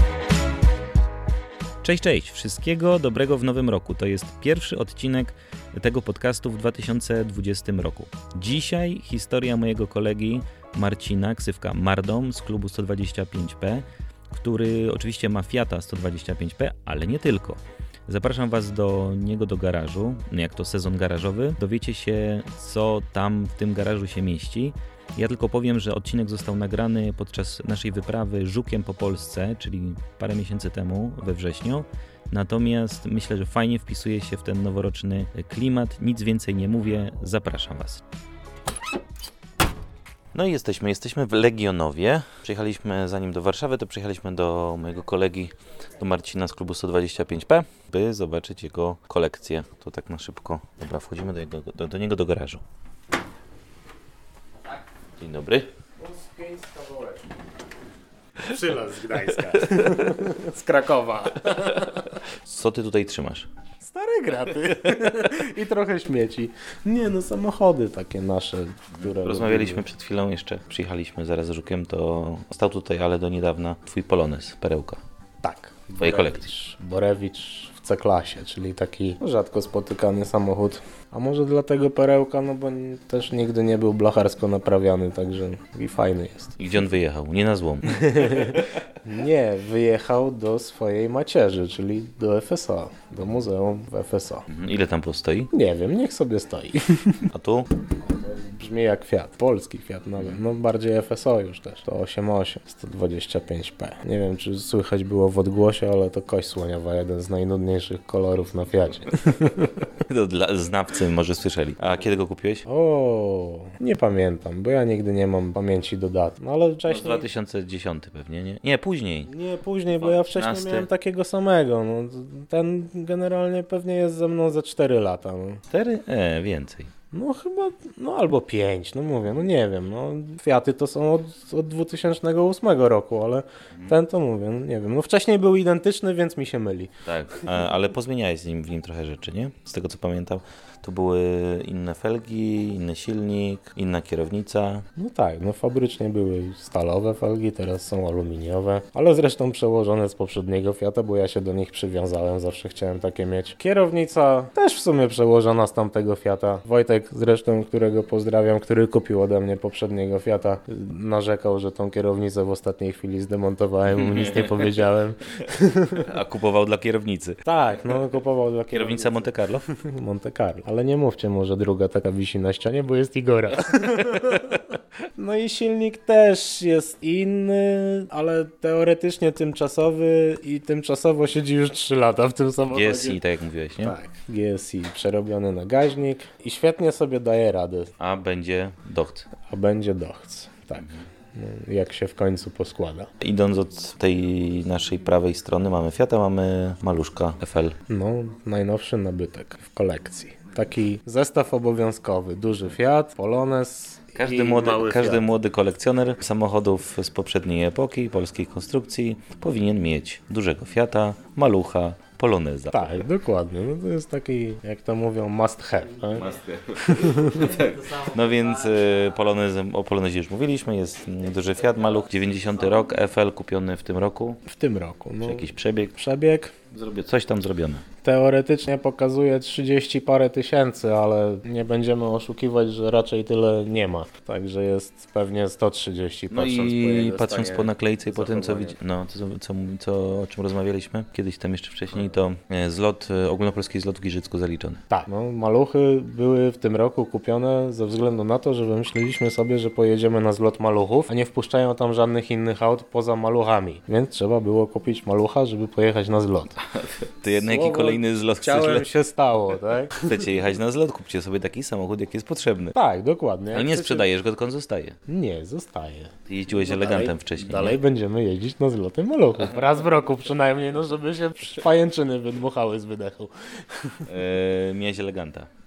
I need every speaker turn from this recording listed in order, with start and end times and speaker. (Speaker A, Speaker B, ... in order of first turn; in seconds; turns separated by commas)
Speaker A: 1.8-38.0, Speaker A: 40.3-52.6, Speaker A: 55.2-55.7, Speaker B: 56.0-57.2, Speaker B: 58.4-62.1, Speaker A: 62.2-63.5, Speaker B: 63.8-69.8, Speaker A: 68.9-75.0, Speaker B: 75.4-86.6, Speaker A: 76.0-76.5, Speaker A: 86.6-88.6, Speaker B: 87.9-94.5, Speaker A: 94.5-95.5, Speaker B: 95.5-97.2, Speaker A: 97.3-97.7, Speaker B: 97.9-109.7, Speaker A: 110.1-112.6, Speaker B: 112.7-117.3, Speaker A: 116.9-119.3, Speaker B: 119.3-125.6, Speaker A: 119.9-120.9, Speaker A: 125.7-126.9, Speaker B: 127.1-137.6, Speaker A: 137.0-144.8, Speaker B: 145.0-166.1, Speaker A: 164.0-164.7, Speaker A: 166.0-167.4, Speaker B: 167.4-183.2, Speaker A: 168.7-169.7, Speaker A: 182.7-183.9, Speaker B: 183.8-187.9, Speaker A: 188.0-189.3, Speaker B: 189.5-193.1, Speaker A: 190.8-191.0, Speaker A: 193.2-197.8, Speaker B: 197.9-205.2, Speaker A: 204.2-213.0, Speaker B: 212.7-217.7, Speaker A: 216.2-224.4, Speaker B: 224.5-226.5, Speaker A: 225.2-225.9, Speaker A: 226.7-227.8, Speaker B: 228.0-238.8, Speaker A: 236.3-244.8, Speaker B: 244.9-256.6, Speaker A: 256.7-258.9, Speaker B: 257.3-260.2, Speaker A: 260.0-262.8, Speaker B: 262.7-264.1, Speaker A: 263.5-265.0, Speaker B: 265.1-274.1, Speaker A: 266.3-267.8, Speaker A: 274.1-275.5